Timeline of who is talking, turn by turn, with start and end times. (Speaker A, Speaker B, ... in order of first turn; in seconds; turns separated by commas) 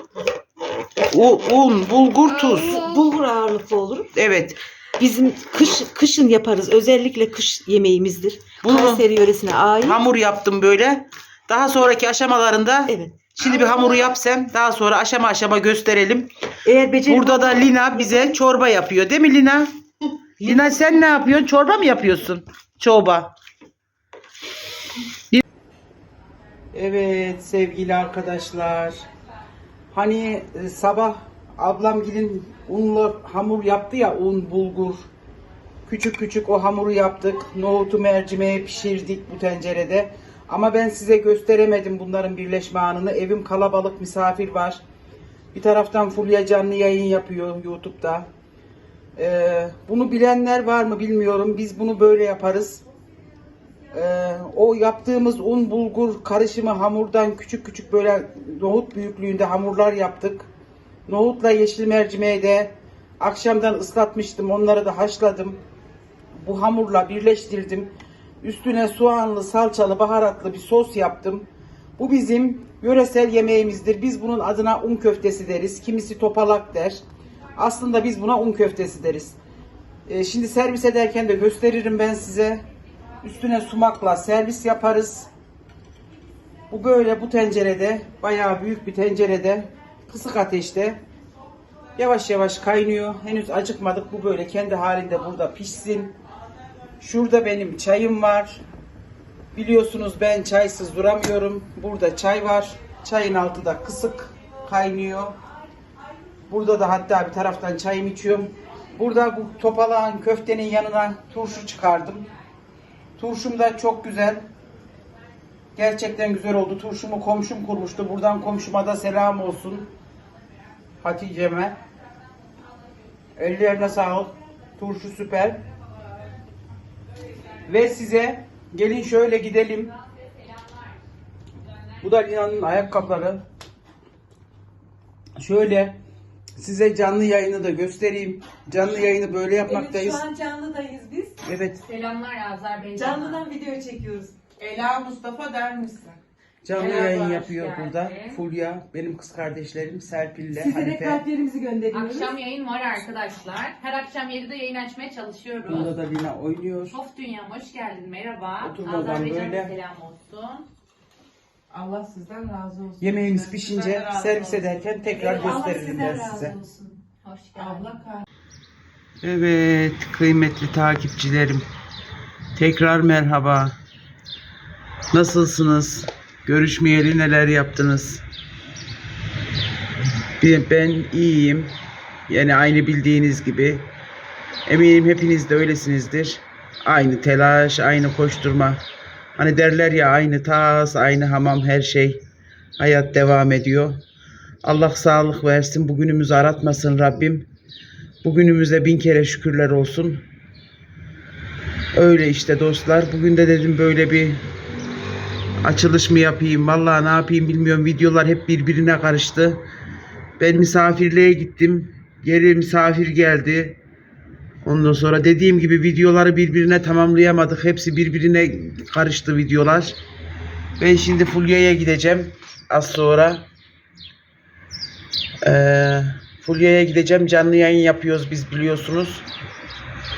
Speaker A: 1.1-2.9, Speaker B: 2.4-4.1, Speaker A: 4.1-4.6, Speaker B: 5.0-10.0, Speaker A: 8.6-9.1, Speaker A: 9.8-16.3, Speaker B: 12.9-13.3, Speaker B: 16.7-18.3, Speaker A: 17.1-19.7, Speaker B: 20.4-20.8, Speaker A: 20.4-23.3, Speaker A: 26.7-29.0, Speaker A: 29.9-35.1, Speaker A: 35.9-44.8, Speaker A: 45.5-48.3, Speaker A: 49.2-52.8, Speaker A: 53.9-60.5, Speaker A: 61.1-65.6, Speaker A: 66.4-67.9, Speaker A: 68.4-71.5, Speaker A: 72.0-77.0, Speaker A: 77.6-79.4, Speaker A: 80.1-82.6, Speaker A: 83.2-85.3, Speaker A: 86.7-91.0, Speaker A: 92.0-96.2, Speaker A: 97.0-98.6, Speaker A: 99.5-105.3, Speaker A: 106.5-112.3, Speaker A: 113.2-114.4, Speaker A: 115.8-119.9, Speaker A: 121.0-121.8, Speaker A: 123.4-125.6, Speaker A: 127.7-129.9, Speaker A: 132.0-133.4, Speaker A: 135.4-136.0, Speaker A: 136.6-140.2, Speaker B: 139.7-141.3, Speaker A: 141.4-141.8, Speaker C: 141.8-143.4, Speaker B: 143.0-144.3, Speaker D: 144.6-146.2, Speaker A: 146.6-151.2, Speaker C: 146.7-148.4, Speaker B: 150.7-152.3, Speaker C: 151.9-155.9, Speaker A: 155.7-157.0, Speaker C: 156.9-160.7, Speaker A: 158.6-159.8, Speaker D: 161.9-164.8, Speaker A: 163.0-166.6, Speaker B: 165.2-166.8, Speaker C: 167.2-168.0, Speaker A: 169.2-171.7, Speaker A: 172.6-173.8, Speaker A: 175.1-178.2, Speaker A: 180.4-181.7, Speaker A: 182.3-183.9, Speaker A: 184.7-188.8, Speaker A: 189.4-192.2, Speaker A: 192.8-194.0, Speaker A: 194.6-197.5, Speaker A: 198.2-200.2, Speaker A: 201.9-204.4, Speaker A: 205.6-209.6, Speaker A: 210.4-213.8, Speaker A: 214.6-220.0, Speaker A: 220.8-223.5, Speaker A: 225.4-229.3